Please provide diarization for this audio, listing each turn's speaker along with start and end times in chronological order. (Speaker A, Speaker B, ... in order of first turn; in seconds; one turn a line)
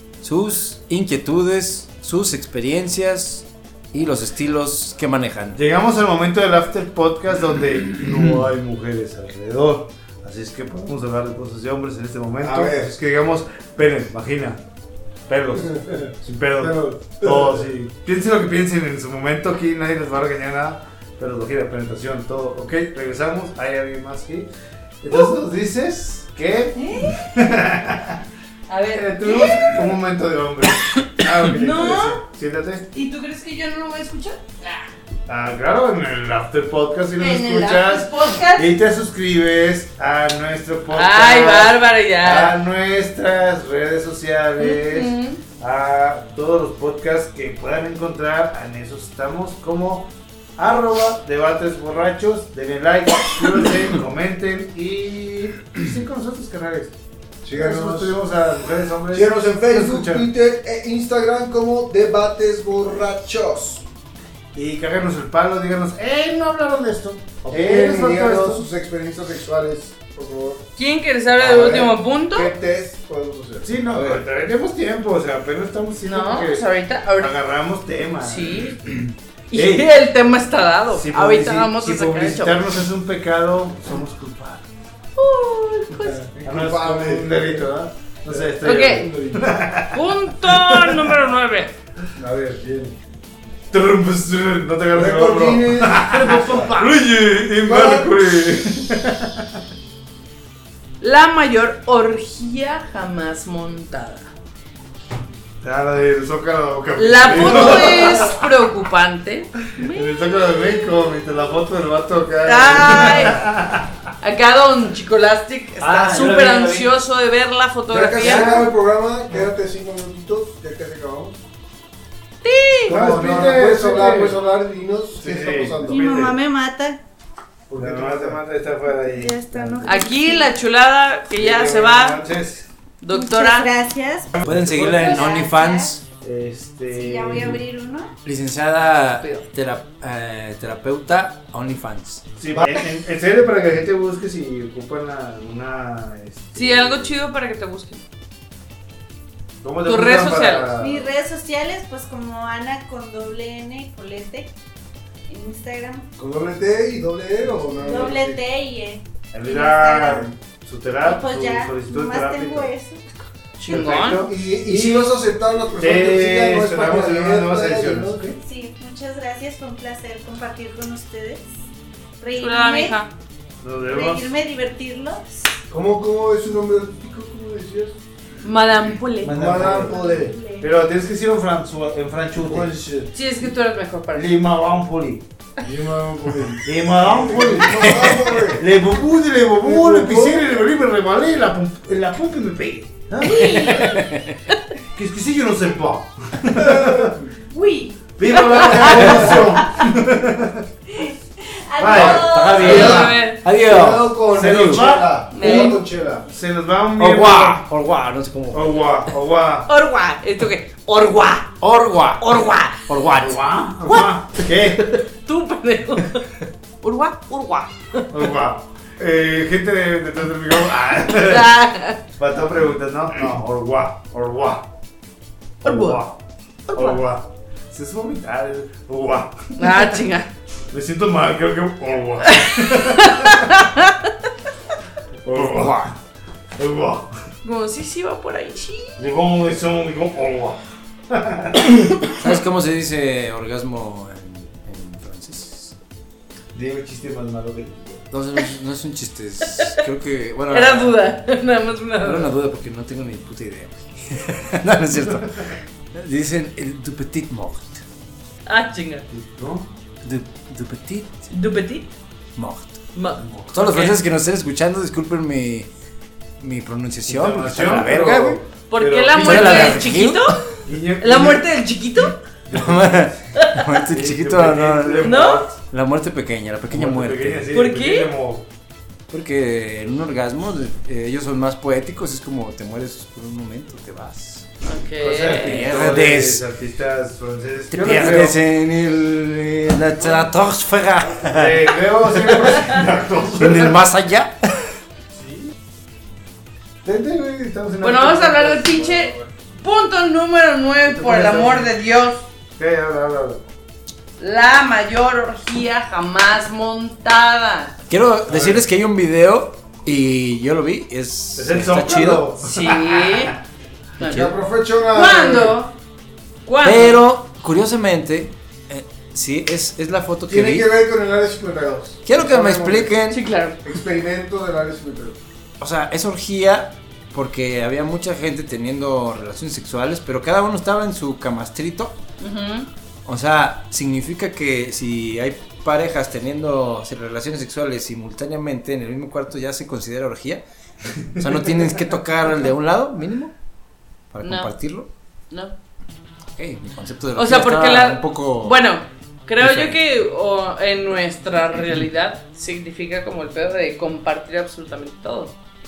Speaker A: 0.2-5.6
Speaker B: 5.5-14.6
Speaker A: 8.1-8.4
Speaker C: 12.4-12.9
Speaker B: 15.3-24.5
Speaker C: 15.6-17.6
Speaker B: 25.0-28.2
Speaker D: 26.8-27.2
Speaker D: 28.7-29.9
Speaker B: 28.9-32.9
Speaker D: 31.4-32.2
Speaker D: 32.9-34.9
Speaker B: 35.3-56.9
Speaker D: 37.2-38.7
Speaker D: 40.9-42.6
Speaker D: 44.6-45.4
Speaker C: 57.4-58.2
Speaker B: 57.6-60.3
Speaker C: 59.1-63.9
Speaker B: 64.5-68.6
Speaker C: 67.4-70.7
Speaker D: 70.8-72.5
Speaker C: 71.4-74.2
Speaker B: 73.6-76.7
Speaker D: 76.0-77.3
Speaker B: 77.2-79.9
Speaker D: 78.2-78.8
Speaker D: 79.5-82.6
Speaker B: 80.9-84.7
Speaker D: 85.2-86.2
Speaker C: 86.0-87.7
Speaker B: 86.4-91.1
Speaker C: 88.3-89.6
Speaker D: 88.6-89.1
Speaker D: 89.9-91.7
Speaker C: 92.2-93.0
Speaker B: 93.7-99.5
Speaker C: 94.9-96.7
Speaker D: 96.1-97.0
Speaker C: 97.6-98.2
Speaker D: 101.0-104.3
Speaker B: 105.6-108.4
Speaker D: 107.0-110.9
Speaker B: 109.9-113.9
Speaker D: 112.4-113.4
Speaker D: 114.2-118.6
Speaker A: 115.8-116.9
Speaker C: 117.9-121.4
Speaker B: 118.2-118.7
Speaker D: 122.4-123.0
Speaker B: 122.9-124.4
Speaker C: 122.9-126.1
Speaker B: 125.2-126.4
Speaker E: 125.8-127.0
Speaker B: 127.7-130.1
Speaker C: 127.7-128.4
Speaker D: 129.0-132.2
Speaker E: 129.8-130.5
Speaker B: 131.3-132.7
Speaker D: 133.0-133.7
Speaker E: 133.1-135.9
Speaker B: 134.3-135.3
Speaker A: 134.4-136.0
Speaker B: 136.2-137.6
Speaker E: 136.9-138.1
Speaker A: 138.2-142.2
Speaker B: 142.4-147.2
Speaker D: 146.6-148.0
Speaker B: 149.6-151.1
Speaker D: 149.8-150.7
Speaker E: 150.8-154.5
Speaker E: 155.3-156.1
Speaker C: 156.2-158.4
Speaker E: 157.8-160.3
Speaker B: 159.3-162.7
Speaker E: 161.0-163.0
Speaker D: 163.6-164.3
Speaker B: 163.7-165.1
Speaker C: 164.2-168.2
Speaker B: 165.8-168.4
Speaker E: 168.4-171.4
Speaker E: 172.2-173.0
Speaker D: 172.4-173.1
Speaker B: 173.6-174.3
Speaker E: 173.8-175.3
Speaker C: 175.7-178.0
Speaker D: 178.4-179.4
Speaker B: 179.2-180.0
Speaker C: 179.3-180.3
Speaker E: 179.6-180.7
Speaker B: 180.6-182.7
Speaker C: 182.4-183.1
Speaker D: 183.1-184.3
Speaker B: 184.1-185.2
Speaker C: 185.6-188.7
Speaker B: 186.6-193.8
Speaker C: 189.6-190.6
Speaker D: 193.2-193.9
Speaker E: 193.4-193.9
Speaker A: 193.8-194.3
Speaker B: 194.9-197.2
Speaker C: 196.6-197.2
Speaker E: 197.5-199.8
Speaker B: 198.2-200.6
Speaker C: 198.8-199.6
Speaker E: 200.9-203.0
Speaker B: 201.8-203.1
Speaker C: 201.8-206.2
Speaker A: 202.1-204.8
Speaker D: 202.6-203.4
Speaker B: 204.3-207.6
Speaker D: 205.3-205.8
Speaker A: 207.0-209.0
Speaker B: 208.5-209.7
Speaker D: 209.7-211.5
Speaker A: 211.6-213.4
Speaker D: 212.2-212.8
Speaker B: 213.2-214.8
Speaker D: 215.0-216.3
Speaker D: 216.8-218.1
Speaker B: 218.1-221.5
Speaker D: 221.1-222.0
Speaker B: 222.2-224.7
Speaker B: 225.6-226.2
Speaker D: 225.6-226.0
Speaker D: 226.7-227.0
Speaker B: 226.7-229.9
Speaker D: 229.6-230.3
Speaker B: 230.7-233.5
Speaker D: 232.2-234.1
Speaker B: 235.2-235.9
Speaker A: 235.3-235.9
Speaker B: 236.6-237.1
Speaker D: 237.4-239.0
Speaker B: 239.0-240.6
Speaker B: 241.1-242.1
Speaker A: 242.1-245.8
Speaker B: 246.5-248.0
Speaker A: 248.1-251.0
Speaker D: 250.5-252.3
Speaker A: 252.0-257.8
Speaker D: 258.5-259.1
Speaker B: 259.1-259.7
Speaker A: 260.0-261.3
Speaker D: 261.3-261.9
Speaker A: 262.4-262.9
Speaker D: 262.9-264.0
Speaker B: 263.2-263.5
Speaker A: 263.5-265.7
Speaker A: 266.4-268.4
Speaker B: 267.1-269.9
Speaker D: 268.7-270.5
Speaker A: 269.2-270.3
Speaker B: 270.6-271.5
Speaker D: 271.0-272.2
Speaker B: 272.5-273.1
Speaker A: 272.5-277.5
Speaker D: 273.4-273.6
Speaker B: 273.9-275.6
Speaker D: 275.0-275.5
Speaker B: 276.7-278.5
Speaker D: 277.5-278.1
Speaker A: 279.1-284.5
Speaker D: 284.6-285.7
Speaker B: 285.0-288.4
Speaker A: 285.4-286.4
Speaker A: 287.7-292.6
Speaker B: 291.3-293.8
Speaker A: 293.4-294.4
Speaker B: 295.2-295.5
Speaker B: 296.8-299.2
Speaker D: 297.8-302.2
Speaker B: 300.9-301.7
Speaker B: 302.6-303.4
Speaker D: 304.2-307.8
Speaker A: 307.9-312.3
Speaker B: 308.3-308.6
Speaker B: 311.4-313.3
Speaker D: 312.4-313.4
Speaker D: 314.0-314.3
Speaker C: 314.0-315.6
Speaker A: 314.0-314.3
Speaker D: 314.9-315.7
Speaker D: 316.5-317.0
Speaker A: 316.6-320.7
Speaker C: 320.3-323.0
Speaker A: 322.1-323.2
Speaker D: 323.1-323.6
Speaker C: 323.6-325.2
Speaker A: 325.6-332.0
Speaker D: 332.2-332.7
Speaker A: 333.1-340.4
Speaker A: 341.1-343.3
Speaker A: 344.1-344.9
Speaker D: 344.2-344.6
Speaker A: 346.4-348.6
Speaker D: 347.2-355.4
Speaker A: 349.4-349.8